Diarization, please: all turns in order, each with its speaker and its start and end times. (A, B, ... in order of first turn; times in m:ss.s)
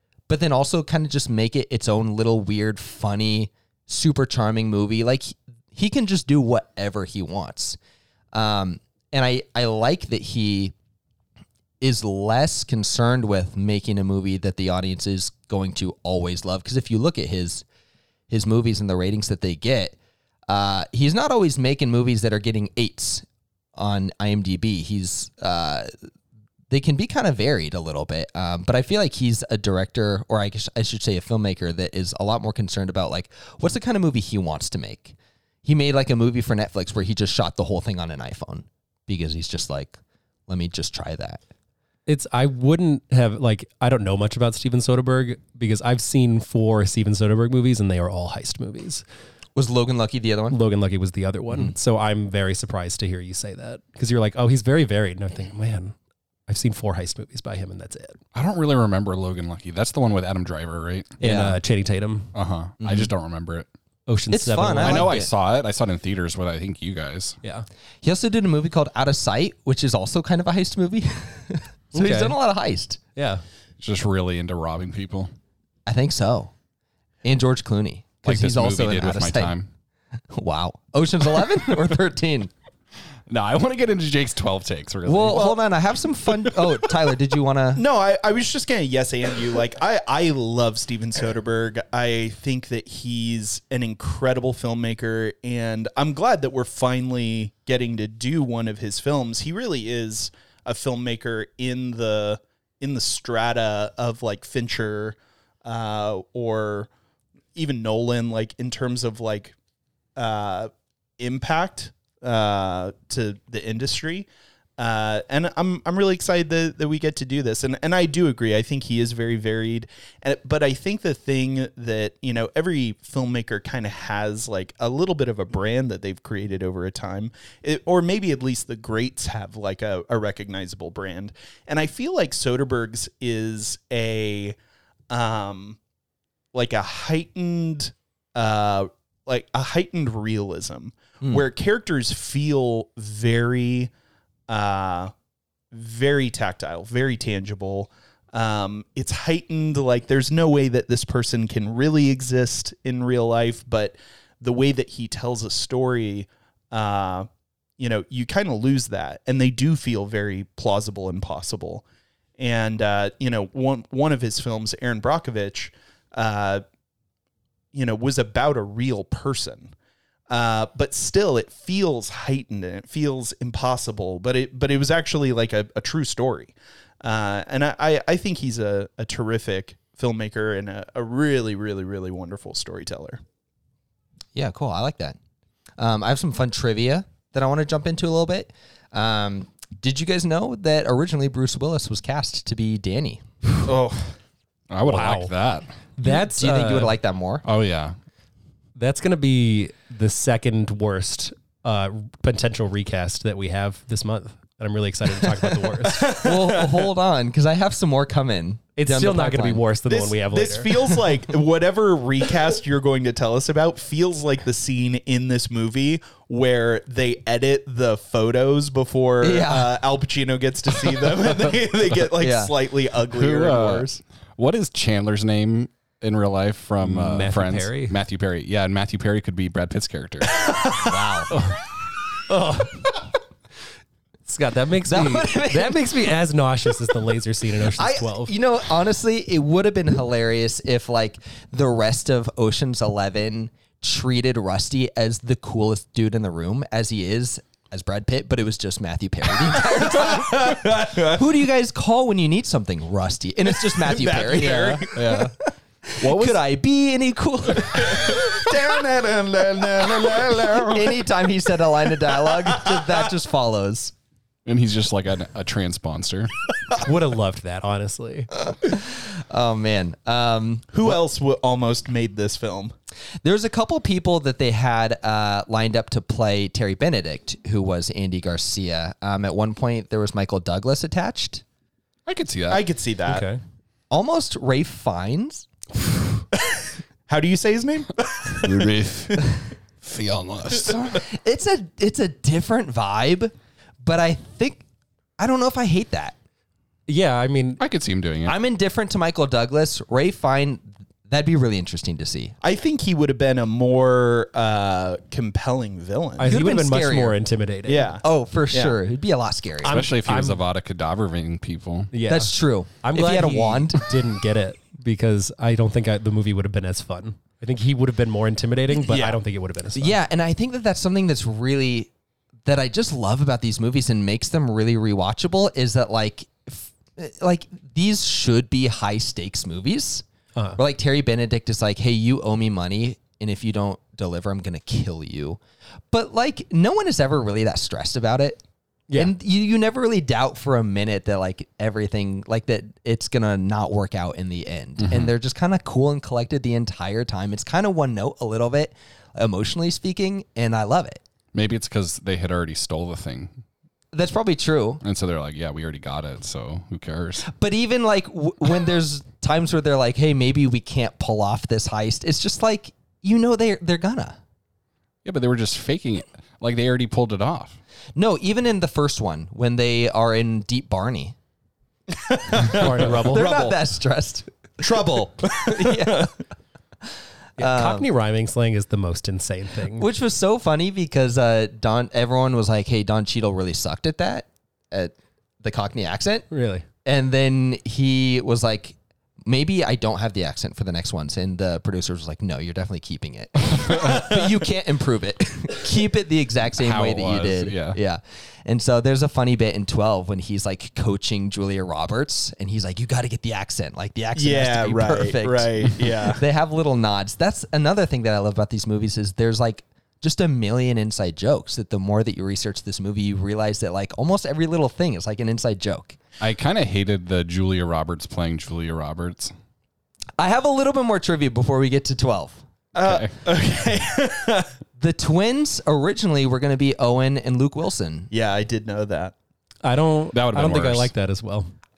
0:00.3-0:07.8 A
0:08.3-0:10.7 A
0:11.8-0:17.6 A
0:18.3-0:20.0 A
0:20.5-0:23.2 A
0:23.8-0:25.9 A
0:26.7-0:41.4 A
0:42.0-0:49.0 B
0:49.5-0:50.6 A
0:50.5-0:55.9 B
0:56.5-0:58.2 B
0:58.3-1:01.1 C
1:01.2-1:02.3 B
1:01.2-1:01.6 A
1:02.3-1:03.7 C
1:02.8-1:03.1 A
1:04.1-1:05.2 B
1:04.3-1:05.3 A
1:04.8-1:07.4 C
1:08.0-1:13.0 A
1:11.9-1:12.4 B
1:13.2-1:13.4 B
1:13.8-1:15.3 C
1:15.8-1:16.5 A
1:17.2-1:19.5 A
1:18.2-1:19.7 C
1:20.3-1:22.5 A
1:23.3-1:25.5 C
1:25.0-1:27.8 A
1:27.7-1:46.9 D
1:47.5-1:49.5 D
1:50.2-1:54.3 D
1:54.8-2:14.6 D
2:15.1-2:15.8 D
2:16.5-2:23.9 D
2:24.5-2:25.1 D
2:25.7-2:41.8 D
2:42.4-2:46.6 D
2:47.7-2:49.7 D
2:50.3-3:03.2 D
3:04.3-3:05.2 A
3:05.8-3:13.2 A
3:13.6-3:14.1 D
3:14.7-3:15.7 C
3:14.8-3:15.3 B
3:16.0-3:16.9 B
3:16.0-3:17.4 A
3:17.4-3:17.9 C
3:18.8-3:26.0 B
3:25.9-3:26.8 D
3:26.0-3:29.6 A
3:28.8-3:30.7 B
3:29.9-3:44.0 D
3:39.2-3:39.7 A
3:42.2-3:42.5 A
3:43.1-3:50.4 C
3:46.8-3:48.0 B
3:50.8-3:51.3 A
3:51.3-3:51.6 B
3:52.3-3:52.9 B
3:54.2-3:58.3 B
3:54.8-3:56.0 A
3:57.7-4:15.3 A
4:09.5-4:11.2 D
4:13.7-4:14.9 D
4:14.5-4:15.3 C
4:15.9-4:18.6 A
4:16.0-4:16.4 C
4:17.7-4:21.0 D
4:19.6-4:23.9 A
4:22.2-4:22.9 D
4:24.4-4:26.3 C
4:26.8-4:28.3 B
4:28.3-4:31.0 A
4:30.7-4:32.7 D
4:33.2-4:41.4 A
4:42.0-4:42.6 C
4:42.5-4:43.2 D
4:43.1-4:43.4 B
4:43.9-4:45.5 A
4:46.3-4:48.7 D
4:48.3-4:51.0 C
4:50.6-4:54.6 A
4:55.2-4:56.2 A
4:56.9-4:57.6 B
4:57.6-4:58.4 C
4:58.2-5:02.4 A
5:02.4-5:06.4 D
5:06.2-5:07.9 B
5:06.2-5:07.2 A
5:07.7-5:08.8 D
5:08.0-5:09.8 A
5:09.6-5:10.4 B
5:09.7-5:11.9 C
5:11.9-5:20.0 B
5:12.0-5:13.8 A
5:18.8-5:19.2 D
5:19.7-5:21.9 A
5:22.4-5:30.0 A
5:30.6-5:35.4 A
5:35.9-5:38.4 A
5:39.0-5:51.0 A
5:44.8-5:45.1 C
5:51.3-5:53.3 C
5:53.9-5:54.8 A
5:54.8-5:57.3 C
5:57.2-6:04.2 A
6:05.0-6:07.6 C
6:07.9-6:11.1 A
6:11.9-6:13.3 D
6:12.4-6:13.5 B
6:12.8-6:14.6 A
6:14.6-6:16.1 D
6:15.3-6:16.1 A
6:17.4-6:17.9 A
6:17.4-6:19.9 B
6:19.7-6:26.3 A
6:26.3-6:26.6 B
6:26.8-6:56.0 A
6:36.6-6:37.8 C
6:44.2-6:46.2 D
6:56.2-6:59.3 C
7:00.2-7:02.4 A
7:02.7-7:04.5 D
7:02.8-7:03.1 C
7:04.8-7:08.1 A
7:08.1-7:09.1 D
7:09.6-7:11.5 B
7:10.1-7:10.9 C